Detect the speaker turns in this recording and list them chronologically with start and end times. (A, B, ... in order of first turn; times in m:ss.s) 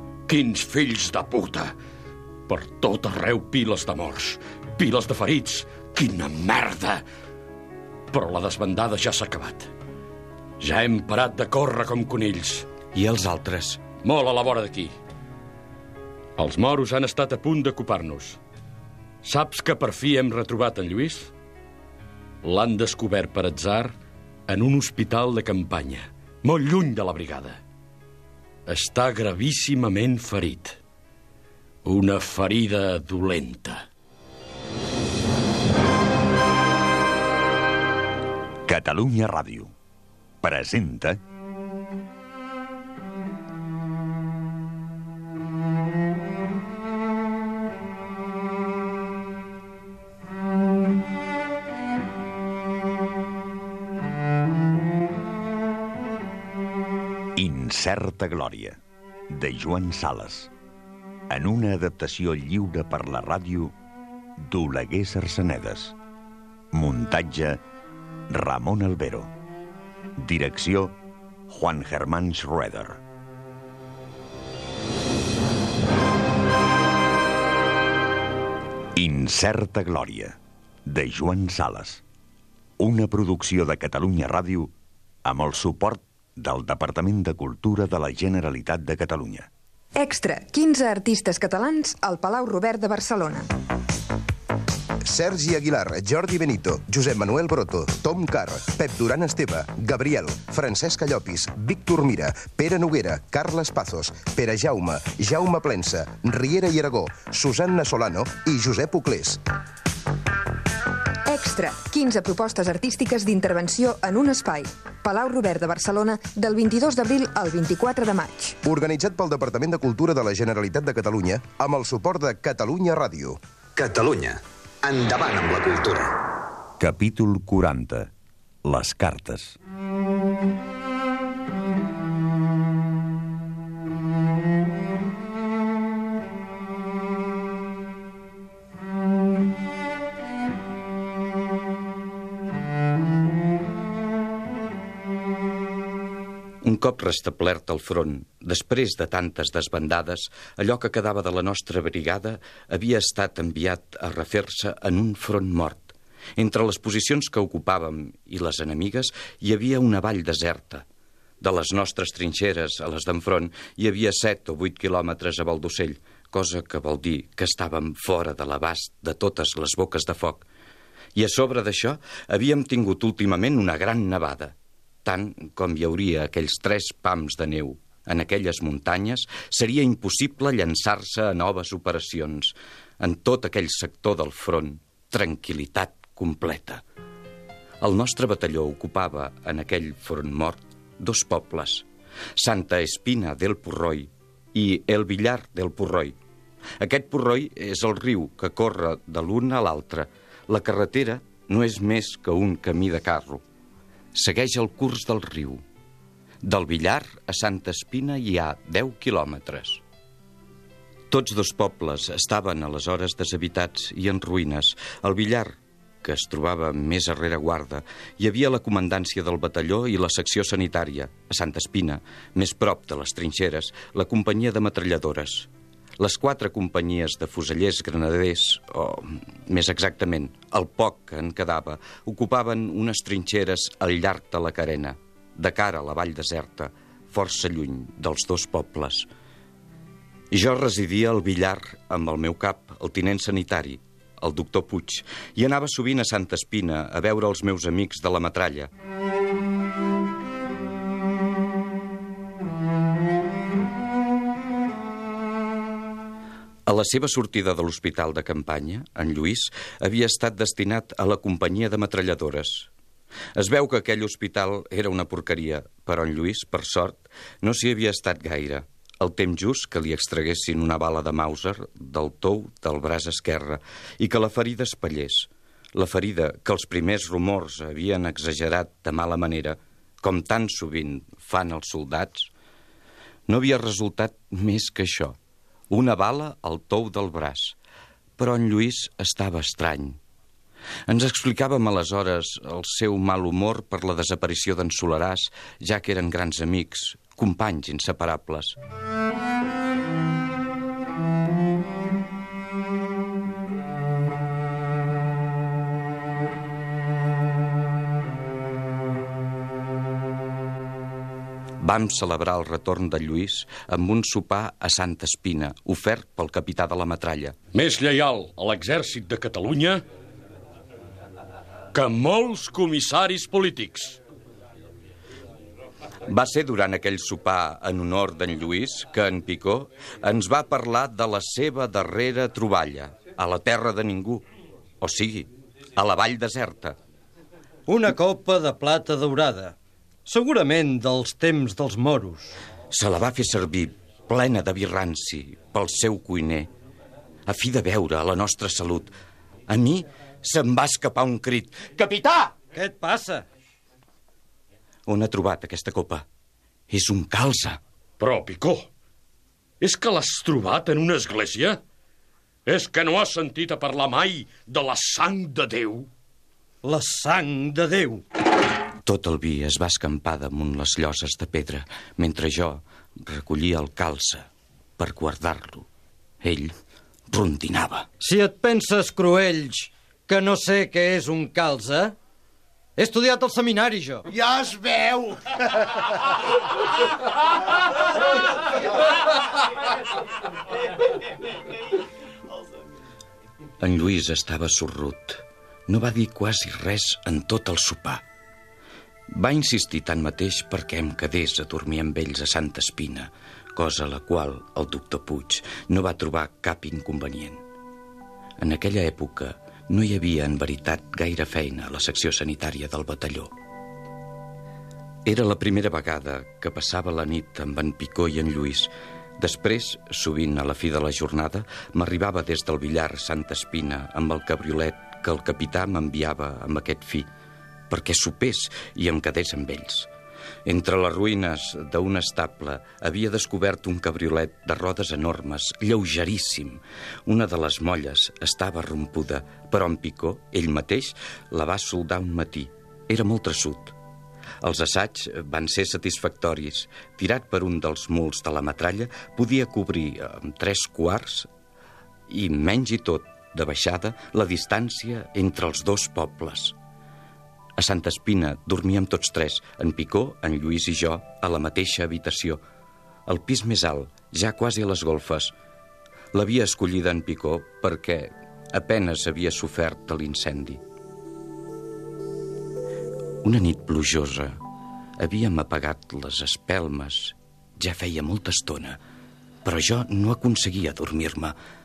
0:00.3-0:01.7 A
0:02.5-0:07.0 A
0:08.1-0:09.7 A
0:10.6-0:12.7 A
0:12.9-0:13.8 B
0:14.0-0:14.9 A
0:16.4-0:18.4 A
0:19.2-0:21.3 A
0:22.4-0:23.9 A
0:24.5-0:27.6 A
0:28.7-0:30.8 A
0:31.8-0:33.8 A
0:38.6-0:39.7 C
0:40.4-0:41.2 C
0:57.4-1:00.5 C
1:01.3-1:03.7 C
1:04.4-1:06.0 C
1:06.7-1:07.6 C
1:08.3-1:09.3 C
1:10.2-1:11.0 C
1:11.5-1:13.0 C
1:19.0-1:22.0 C
1:22.8-1:24.7 C
1:25.2-1:29.5 C
1:30.0-1:33.5 D
1:35.0-1:49.4 E
1:51.3-1:58.6 D
1:58.6-2:03.4 E
2:03.8-2:06.1 F
2:06.8-2:08.1 C
2:08.6-2:09.6 C
2:26.6-2:40.8 B
2:41.4-2:50.4 B
2:51.2-3:06.8 B
3:07.8-3:11.8 B
3:12.4-3:16.2 B
3:16.8-3:23.4 B
3:24.1-3:25.6 B
3:26.4-3:29.8 B
3:31.1-3:45.5 B
3:46.0-3:59.1 B
4:00.3-4:08.7 B
4:16.7-4:22.7 B
4:23.4-4:42.3 B
4:43.3-4:45.2 B
4:45.7-4:47.6 B
4:48.2-4:50.0 B
4:50.9-4:58.6 B
5:11.6-5:17.3 B
5:17.5-5:19.8 A
5:21.7-5:24.0 A
5:26.1-5:34.2 B
5:34.8-5:36.8 B
5:37.7-5:42.4 G
5:42.7-5:46.5 B
5:47.3-5:48.9 B
5:49.5-5:52.3 B
5:52.5-5:53.2 G
5:54.9-5:56.0 B
5:56.7-5:57.6 B
5:58.0-5:58.7 A
5:59.6-6:01.6 A
6:02.5-6:05.9 A
6:06.6-6:08.0 G
6:08.8-6:14.2 B
6:14.8-6:15.7 B
6:16.2-6:16.5 B
6:17.1-6:17.9 B
6:18.0-6:22.0 G
6:22.8-6:25.4 G
6:33.6-6:38.0 B
6:39.1-6:47.4 B
6:48.4-6:53.3 B
6:55.0-7:07.1 B
7:07.7-7:09.9 B
7:10.4-7:23.7 B
7:24.4-7:31.3 B
7:32.1-7:36.5 B
7:37.6-7:42.4 B
7:43.1-7:45.3 B
7:46.1-7:50.6 B
7:53.2-7:54.4 B
7:55.0-7:58.8 B
7:59.4-8:01.3 B